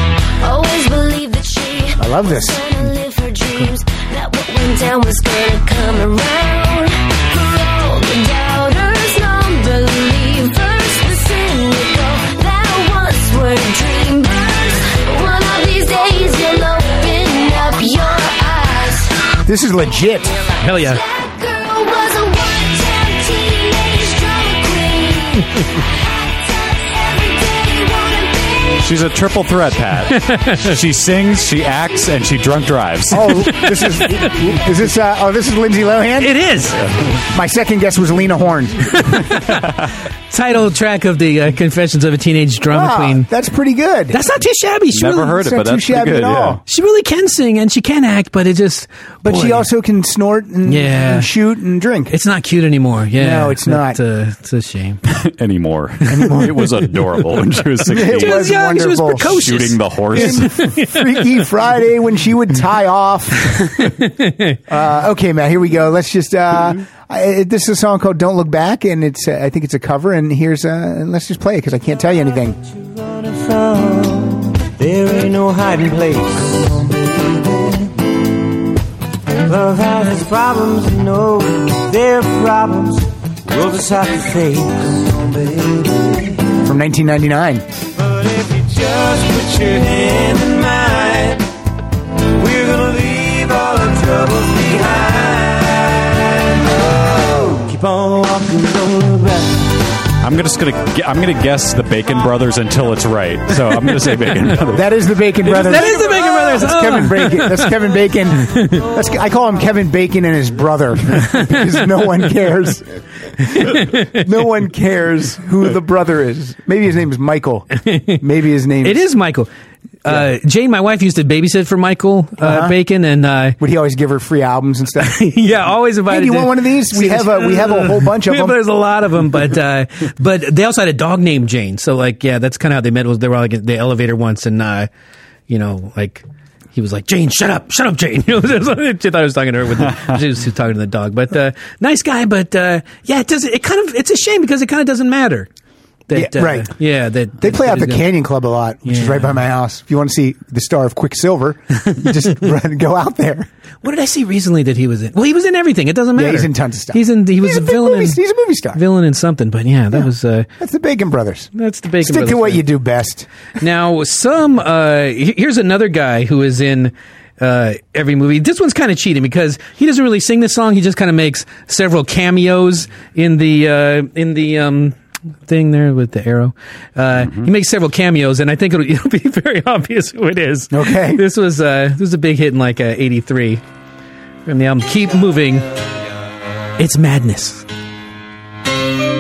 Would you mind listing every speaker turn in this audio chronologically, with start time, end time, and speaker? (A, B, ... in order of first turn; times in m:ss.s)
0:00.4-0:19.2 A
0:02.0-0:02.6 B
0:19.4-0:20.4 B
0:20.6-0:21.0 C
0:20.6-0:28.9 A
0:28.8-0:33.6 D
0:30.1-0:30.7 C
0:33.1-0:36.4 B
0:33.5-0:34.3 C
0:36.2-0:36.8 C
0:36.8-0:37.2 D
0:37.3-0:39.0 B
0:39.0-0:39.6 C
0:40.3-0:43.3 C
0:42.7-0:44.2 B
0:44.1-0:45.4 C
0:44.9-0:46.6 D
0:45.3-0:46.6 B
0:46.7-0:49.7 C
0:49.2-0:52.2 B
0:50.7-0:51.3 C
0:52.1-0:55.0 C
0:53.2-0:54.0 B
0:55.1-0:58.5 D
0:56.1-0:56.7 B
0:57.9-0:59.5 B
0:58.1-1:01.0 C
0:59.3-1:00.7 D
1:00.1-1:03.9 B
1:03.8-1:04.6 C
1:04.7-1:12.6 B
1:13.0-1:18.0 E
1:19.4-1:26.4 E
1:26.6-1:27.6 B
1:28.0-1:31.5 E
1:32.4-1:39.7 E
1:40.2-1:44.9 D
1:44.7-1:53.0 B
1:45.4-1:47.8 C
1:48.5-1:48.8 C
1:53.5-1:59.0 B
1:53.5-1:54.2 C
1:57.8-1:58.2 C
1:58.8-1:59.5 C
2:00.0-2:03.6 C
2:02.4-2:02.8 B
2:03.6-2:05.2 B
2:05.0-2:14.9 C
2:06.1-2:08.6 B
2:15.5-2:25.5 C
2:26.1-2:28.1 C
2:26.1-2:26.7 B
2:27.4-2:33.5 B
2:28.8-2:29.3 C
2:33.8-2:38.2 C
2:36.2-2:38.8 B
2:38.7-2:40.5 C
2:40.6-2:41.5 B
2:41.6-2:42.7 C
2:42.0-2:43.3 B
2:43.6-3:03.6 C
2:57.2-2:57.5 D
3:00.7-3:01.2 B
3:04.5-3:05.7 C
3:06.8-3:07.6 C